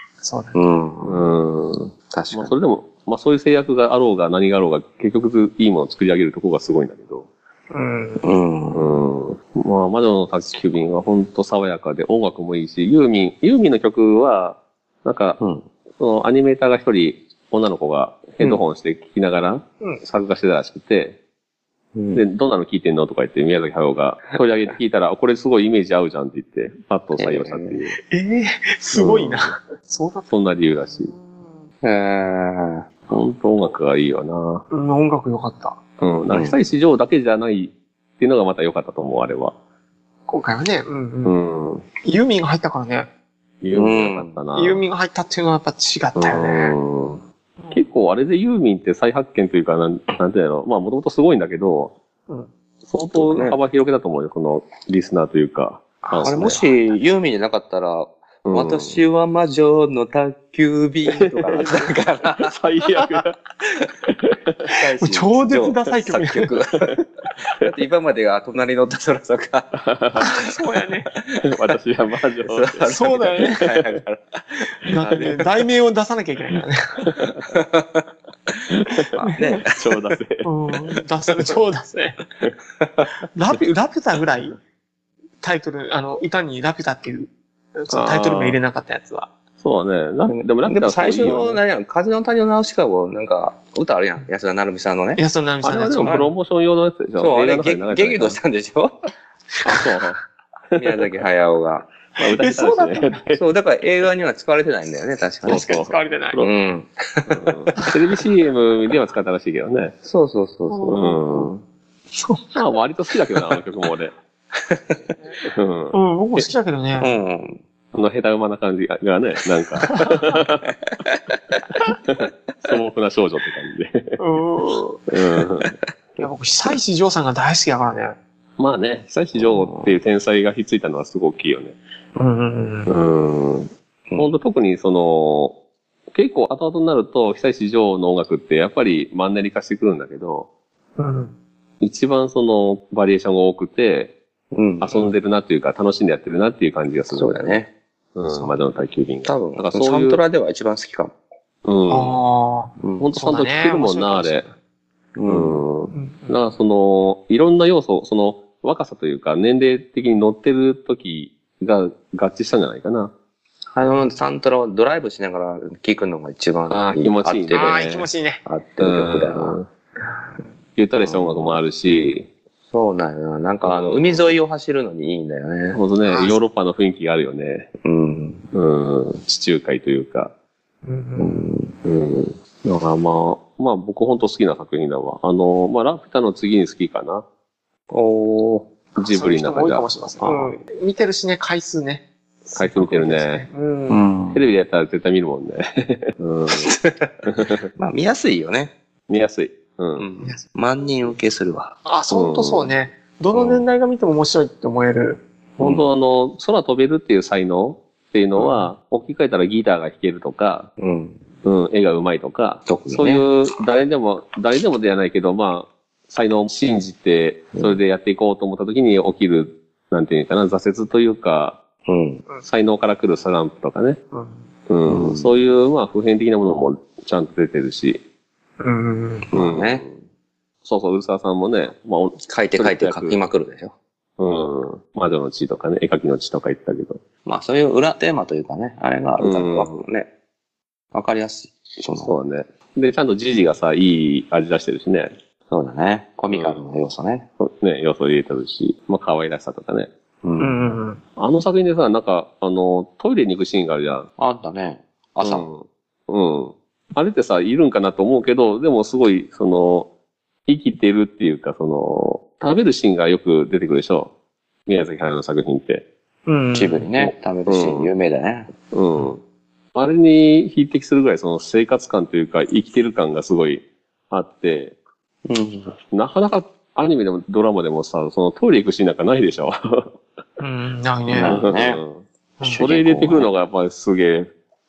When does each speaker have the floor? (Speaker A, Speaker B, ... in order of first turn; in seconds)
Speaker A: 0.2-0.6, 7.7-8.2, 28.1-30.3, 34.7-35.8, 40.3-41.4, 42.0-43.1, 44.5-46.8, 65.0-66.5, 70.2-71.1, 72.9-73.7, 74.9-77.2, 80.4-82.2, 83.3-84.6, 85.4-89.3, 95.2-96.3, 102.2-103.2, 105.5-106.4, 110.7-111.2, 112.1-112.7, 115.9-117.1, 124.2-125.0, 126.2-128.2, 132.2-132.9, 141.0-141.3, 151.9-154.5, 155.9-156.4, 167.6-168.4, 176.1-176.3, 180.8-181.5, 189.1-194.0, 201.8-205.2, 208.4-208.7, 224.1-224.4, 228.6-229.3, 250.4-251.0, 266.3-266.9, 280.4-281.4
Speaker B: 0.5-1.3, 2.1-2.5, 8.2-8.9, 15.4-15.7, 21.9-22.2, 27.2-27.8, 31.8-33.0, 36.3-36.6, 43.7-44.4, 53.2-53.6, 56.0-62.5, 64.7-69.8, 71.2-71.6, 72.5-75.4, 77.5-78.0, 79.1-79.8, 82.8-83.1, 90.3-95.2, 96.0-96.3, 97.2-99.0, 100.8-101.9, 103.3-105.8, 106.4-107.9, 110.0-111.5, 114.5-115.0, 117.0-117.6, 129.4-130.0, 144.5-145.0, 147.1-147.7, 149.2-151.1, 152.8-153.1, 155.2-155.7, 163.7-167.9, 168.4-169.6, 171.0-171.6, 172.7-175.8, 177.8-178.5, 181.2-181.8, 187.9-188.7, 190.2-190.6, 193.9-194.4, 196.5-197.1, 197.8-198.7, 200.0-201.8, 203.3-203.6, 210.8-211.2, 212.7-213.2, 217.5-217.8, 221.9-222.2, 224.9-225.3, 229.3-229.8, 232.2-233.7, 237.2-240.1, 240.9-242.2, 245.5-247.3, 250.2-250.6, 254.2-255.5, 266.5-268.5, 275.3-275.8, 281.1-281.8, 282.4-283.3
Speaker C: 1.1-7.3, 8.7-15.4, 16.0-21.2, 22.1-28.0, 28.9-29.6, 30.3-31.1, 33.1-34.6, 36.0-39.5, 41.2-41.8, 43.6-44.8, 46.2-51.9, 52.9-56.6, 58.5-59.0, 61.1-63.4, 64.1-64.6, 69.8-70.3, 71.4-73.8, 77.1-77.4, 78.7-79.1, 79.7-80.5, 87.9-88.6, 89.6-91.6, 95.6-98.4, 99.7-100.2, 100.7-101.0, 102.2-103.4, 105.5-106.5, 107.3-109.9, 110.9-111.5, 112.6-114.1, 115.5-116.5, 117.9-120.7, 122.1-124.2, 125.1-125.7, 128.6-131.8, 132.9-135.6, 136.1-140.5, 141.8-144.1, 144.8-147.6, 148.2-150.2, 151.7-152.2, 153.0-154.5, 155.3-163.1, 166.7-168.1, 168.8-169.7, 170.8-172.3, 173.6-174.4, 175.7-177.7, 178.5-180.3, 181.8-187.2, 189.0-189.9, 192.6-193.4, 194.3-196.7, 197.3-197.6, 199.1-200.1, 202.1-202.7, 205.6-210.7, 211.4-221.6, 222.4-224.0, 224.7-228.0, 229.3-230.0, 230.7-233.2, 234.2-237.0, 239.2-239.8, 242.0-245.1, 246.3-246.6, 247.4-249.9, 251.2-254.1, 255.2-259.9, 260.5-264.1, 264.7-265.9, 267.0-267.9, 268.7-269.2, 269.7-274.8, 275.9-279.9, 281.2-282.0, 282.6-284.3